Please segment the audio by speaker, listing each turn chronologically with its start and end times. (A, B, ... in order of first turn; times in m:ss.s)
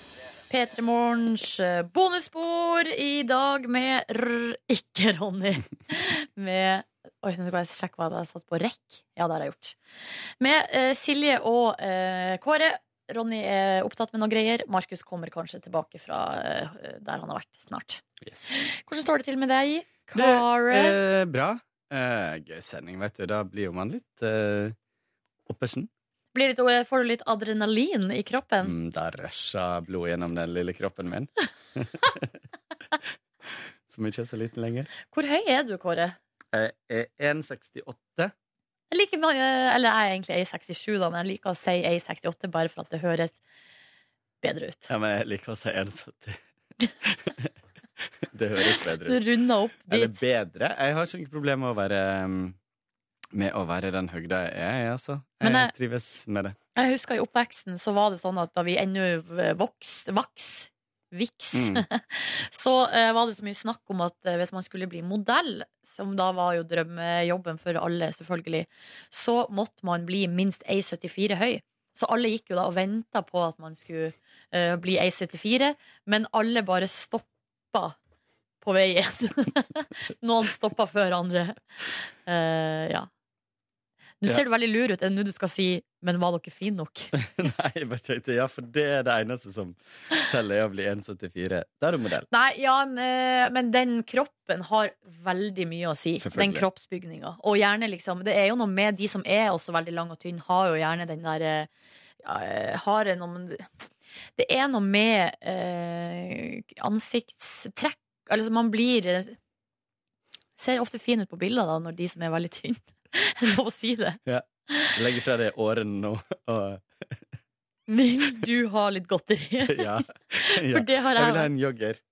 0:00.5-0:09.8 A
0:10.4-0:21.0 A
0:18.3-0:18.6 B
0:20.1-0:24.8 B
0:25.5-0:25.9 B
0:26.3-0:28.7 A
0:28.6-0:32.3 B
0:33.9-0:34.9 B
0:35.0-0:36.2 A
0:36.5-0:38.3 B
0:38.9-0:43.4 A
0:44.4-0:44.9 A
0:44.9-0:46.4 B
0:47.0-0:47.5 B
0:48.3-0:49.2 B
0:49.0-0:50.2 A
0:49.9-0:52.6 B
0:53.3-0:56.6 B
0:55.4-0:55.7 A
0:56.8-1:18.0 A
1:01.5-1:01.8 B
1:18.6-1:21.6 A
1:22.2-1:23.1 A
1:24.2-1:27.1 A
1:27.2-1:32.3 B
1:32.3-1:41.7 A
1:36.2-1:36.6 B
1:42.2-1:43.7 A
1:44.4-1:49.4 A
1:50.6-1:54.2 A
1:54.3-1:57.2 B
1:54.7-1:55.0 A
1:57.9-2:01.5 A
1:59.7-2:02.0 B